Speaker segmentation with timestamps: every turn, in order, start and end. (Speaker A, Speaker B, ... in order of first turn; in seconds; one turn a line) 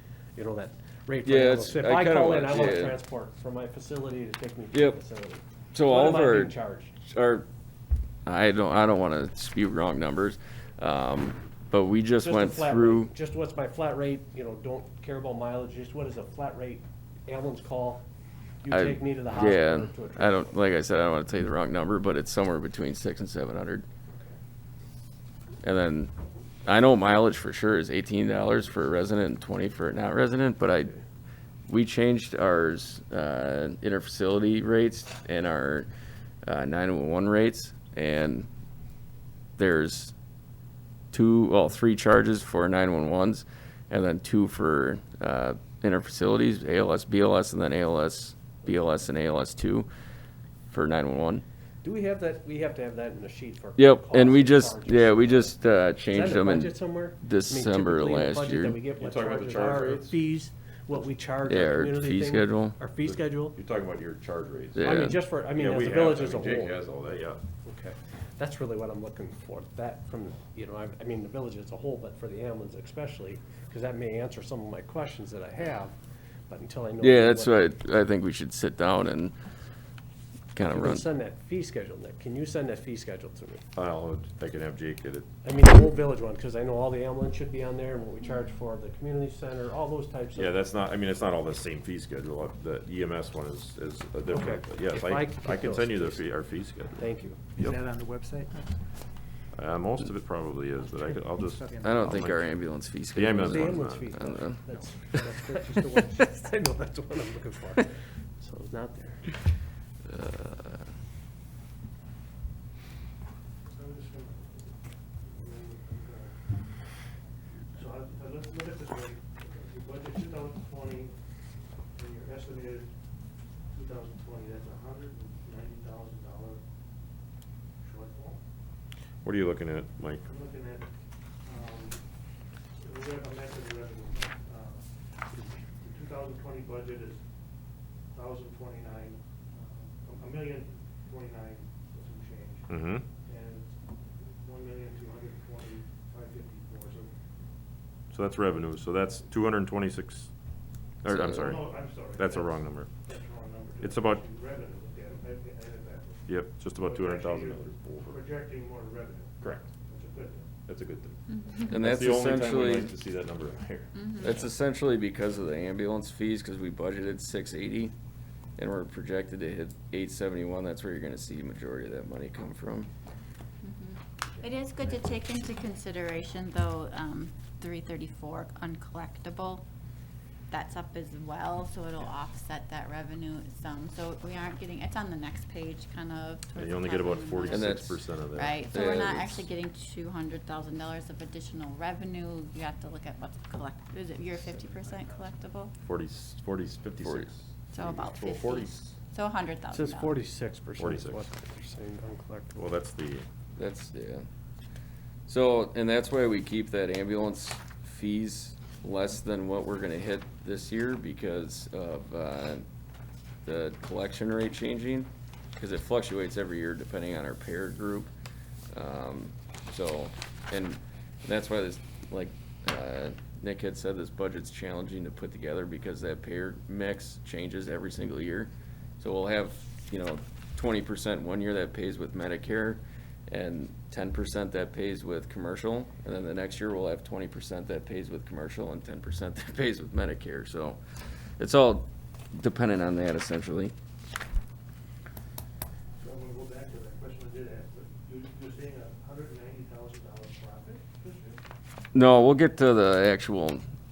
Speaker A: 0.3-6.9
Speaker B: 1.2-3.0
Speaker B: 4.7-5.0
Speaker B: 5.7-7.5
Speaker B: 8.3-13.1
Speaker A: 12.2-18.0
Speaker A: 18.6-20.5
Speaker B: 18.7-23.8
Speaker B: 25.6-26.1
Speaker B: 26.6-30.9
Speaker B: 31.7-35.9
Speaker B: 36.4-38.5
Speaker B: 39.6-40.1
Speaker B: 41.1-49.9
Speaker B: 50.7-51.4
Speaker A: 51.8-55.5
Speaker B: 53.8-58.8
Speaker A: 56.1-63.6
Speaker C: 59.0-60.2
Speaker B: 61.5-62.8
Speaker C: 63.1-64.8
Speaker B: 64.8-65.2
Speaker A: 64.8-66.8
Speaker C: 65.5-67.4
Speaker A: 67.6-75.9
Speaker A: 76.5-77.6
Speaker B: 77.0-79.3
Speaker B: 80.5-81.0
Speaker A: 80.6-83.6
Speaker C: 83.7-85.3
Speaker A: 85.4-90.5
Speaker C: 90.3-97.8
Speaker A: 94.3-96.2
Speaker A: 97.0-97.4
Speaker D: 97.6-98.7
Speaker C: 99.5-102.5
Speaker D: 100.8-102.2
Speaker B: 101.8-104.6
Speaker C: 103.1-104.2
Speaker A: 103.4-109.3
Speaker B: 110.1-110.8
Speaker E: 113.7-116.8
Speaker E: 117.7-121.2
Speaker E: 121.9-122.9
Speaker E: 123.7-126.6
Speaker E: 127.8-128.4
Speaker C: 129.2-130.2
Speaker E: 130.2-130.9
Speaker E: 131.4-132.1
Speaker E: 132.8-134.9
Speaker E: 135.8-137.2
Speaker E: 138.1-147.1
Speaker C: 142.7-143.1
Speaker C: 148.1-150.3
Speaker C: 151.0-152.9
Speaker B: 151.1-151.5
Speaker E: 151.5-160.5
Speaker C: 153.8-154.2
Speaker C: 156.3-158.2
Speaker C: 159.4-159.7
Speaker C: 160.7-161.2
Speaker F: 161.3-161.7
Speaker B: 161.7-162.9
Speaker C: 161.7-164.0
Speaker F: 163.9-164.4
Speaker B: 164.2-167.9
Speaker B: 168.6-172.9
Speaker F: 173.6-179.7
Speaker F: 180.5-195.7
Speaker C: 186.6-188.6
Speaker B: 187.5-187.9
Speaker B: 188.5-189.5
Speaker C: 195.8-198.9
Speaker B: 197.0-197.3
Speaker F: 197.7-200.2
Speaker A: 199.7-202.7
Speaker C: 200.8-201.3
Speaker C: 202.6-203.2
Speaker B: 203.6-204.2
Speaker B: 205.3-212.6
Speaker B: 213.4-218.1
Speaker B: 218.7-240.8
Speaker B: 241.4-243.7
Speaker E: 246.0-251.4
Speaker B: 251.9-253.6